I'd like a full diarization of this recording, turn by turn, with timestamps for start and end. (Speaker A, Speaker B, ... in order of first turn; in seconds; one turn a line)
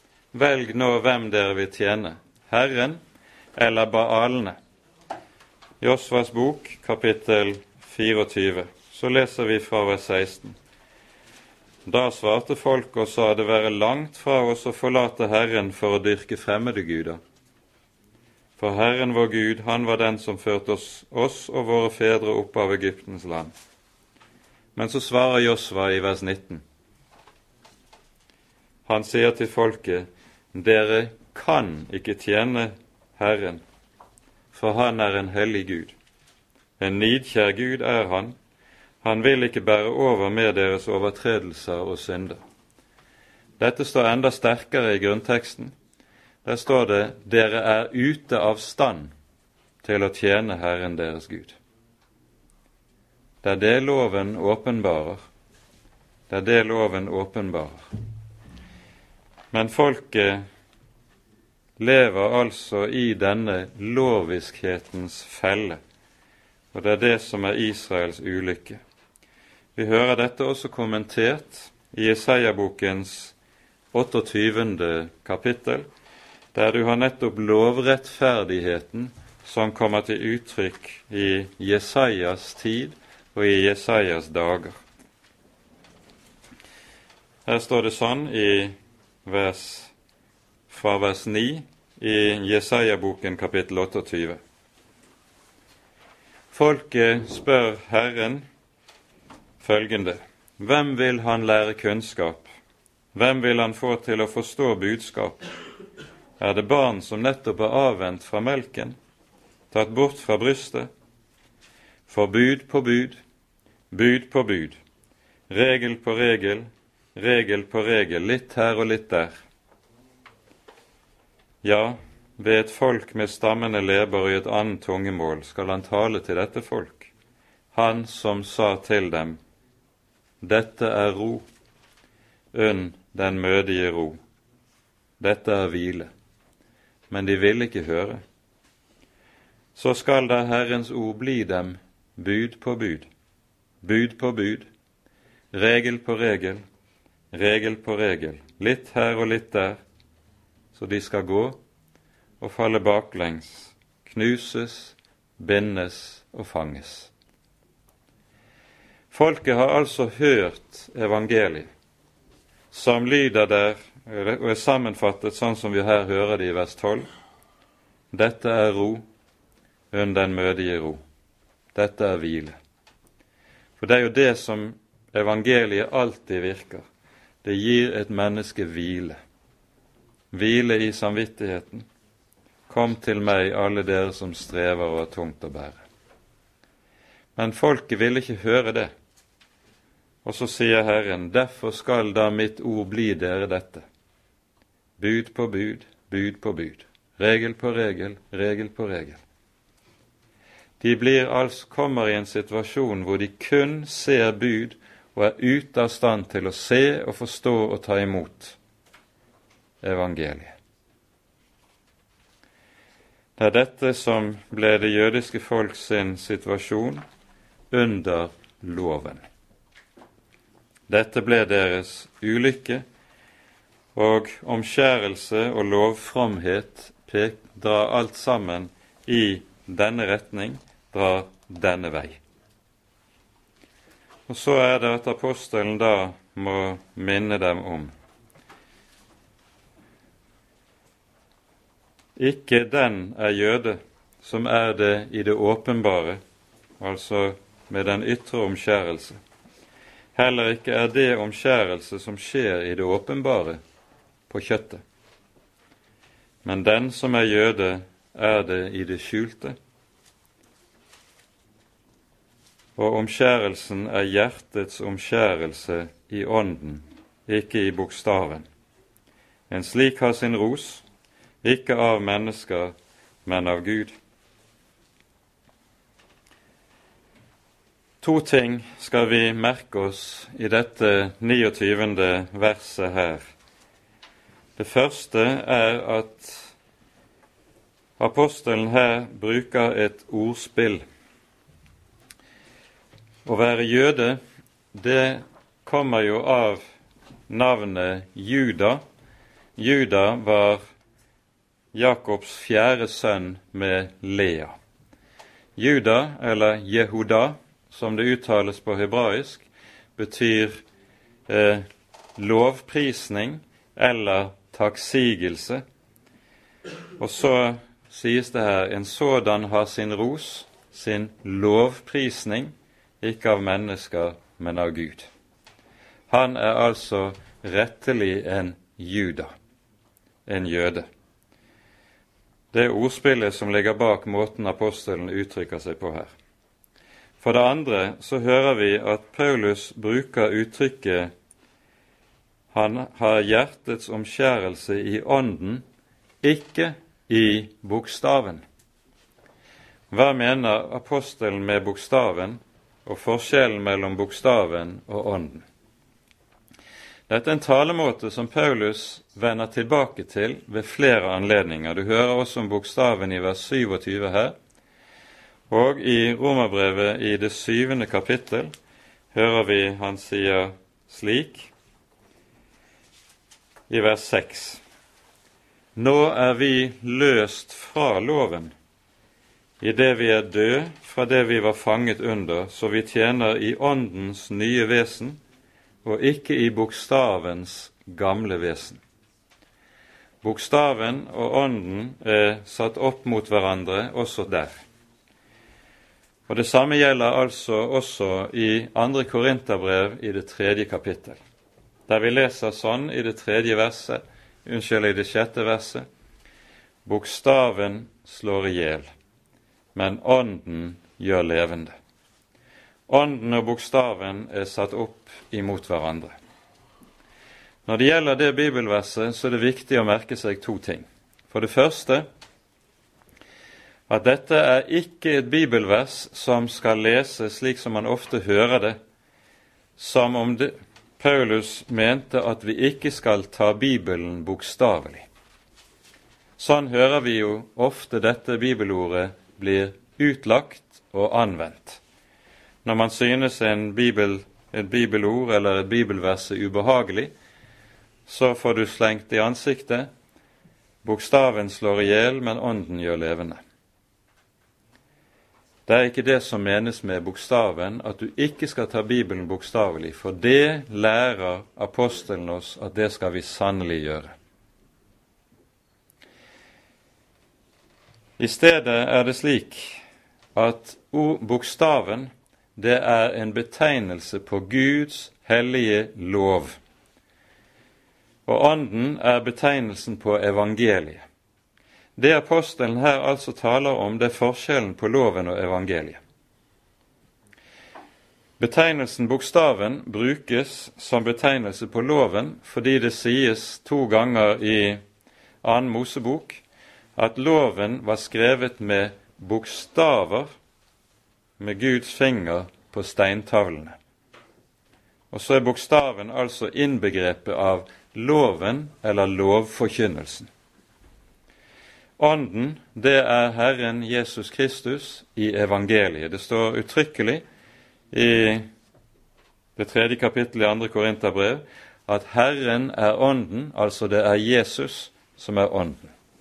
Speaker A: 0.3-3.0
Speaker A: 3.5-4.6
Speaker A: 5.8-10.6
Speaker A: 11.8-17.2
Speaker A: 18.6-23.5
Speaker A: 24.7-26.6
Speaker A: 28.9-33.6
Speaker A: 34.5-35.9
Speaker A: 36.8-38.3
Speaker A: 39.0-42.4
Speaker A: 43.6-45.7
Speaker A: 46.4-49.1
Speaker A: 49.8-51.6
Speaker A: 53.4-55.2
Speaker A: 56.3-57.8
Speaker A: 59.5-60.4
Speaker A: 61.8-65.8
Speaker A: 66.7-68.8
Speaker A: 69.8-73.3
Speaker A: 73.9-75.9
Speaker A: 76.5-84.8
Speaker A: 87.5-89.9
Speaker A: 90.7-94.4
Speaker A: 96.5-98.4
Speaker A: 99.6-102.5
Speaker A: 103.1-105.4
Speaker A: 106.4-109.0
Speaker A: 109.7-110.9
Speaker A: 112.1-113.2
Speaker A: 113.9-114.8
Speaker A: 115.5-119.3
Speaker A: 121.6-127.1
Speaker A: 127.7-129.4
Speaker A: 130.4-131.4
Speaker A: 132.5-134.2
Speaker A: 135.2-136.1
Speaker A: 137.1-138.2
Speaker A: 139.8-143.1
Speaker A: 143.8-144.7
Speaker A: 145.5-146.6
Speaker A: 147.3-149.8
Speaker A: 150.7-151.6
Speaker A: 152.4-157.1
Speaker A: 159.1-161.7
Speaker A: 162.7-167.1
Speaker A: 168.1-169.0
Speaker A: 169.9-171.0
Speaker A: 171.7-172.6
Speaker A: 173.8-176.8
Speaker A: 177.4-179.2
Speaker A: 180.3-181.8
Speaker A: 182.7-185.8
Speaker A: 187.3-188.9
Speaker A: 190.2-193.8
Speaker A: 195.0-199.2
Speaker A: 200.8-208.6
Speaker A: 209.8-210.6
Speaker A: 213.4-217.0
Speaker A: 217.7-219.2
Speaker A: 220.9-222.8
Speaker A: 223.9-232.2
Speaker A: 234.3-237.9
Speaker A: 242.2-246.2
Speaker A: 246.8-249.2
Speaker A: 250.1-253.6
Speaker A: 254.3-254.8
Speaker A: 256.4-259.6
Speaker A: 262.8-268.5
Speaker A: 269.5-270.8
Speaker A: 271.4-272.7
Speaker A: 273.2-273.9
Speaker A: 278.0-283.2
Speaker A: 284.6-286.5
Speaker A: 288.0-290.8
Speaker A: 293.2-294.2
Speaker A: 294.7-296.6
Speaker A: 297.3-298.8
Speaker A: 299.6-300.6
Speaker A: 301.7-304.6
Speaker A: 305.6-310.6
Speaker A: 311.3-311.6
Speaker A: 312.2-315.6
Speaker A: 317.0-325.1
Speaker A: 326.1-329.3
Speaker A: 330.2-330.9
Speaker A: 332.5-336.1
Speaker A: 337.2-341.1
Speaker A: 342.5-345.6
Speaker A: 346.2-348.4
Speaker A: 349.9-355.4
Speaker A: 357.1-364.3
Speaker A: 365.5-368.5
Speaker A: 369.1-371.5
Speaker A: 373.7-374.6
Speaker A: 375.8-378.5
Speaker A: 379.6-385.2
Speaker A: 385.8-388.8
Speaker A: 390.2-394.6
Speaker A: 396.3-401.2
Speaker A: 401.9-405.8
Speaker A: 406.8-408.9
Speaker A: 409.7-411.7
Speaker A: 412.9-416.1
Speaker A: 417.6-422.1
Speaker A: 423.9-428.8
Speaker A: 429.8-435.1
Speaker A: 436.4-441.8
Speaker A: 442.6-447.1
Speaker A: 448.1-449.9
Speaker A: 450.8-453.4
Speaker A: 455.7-464.1
Speaker A: 468.2-469.8
Speaker A: 470.3-476.6
Speaker A: 478.2-481.0
Speaker A: 481.9-486.0
Speaker A: 488.4-494.8
Speaker A: 495.4-496.4
Speaker A: 496.9-500.3
Speaker A: 501.4-503.8
Speaker A: 505.1-510.3
Speaker A: 512.0-517.2
Speaker A: 517.9-518.5
Speaker A: 519.5-525.9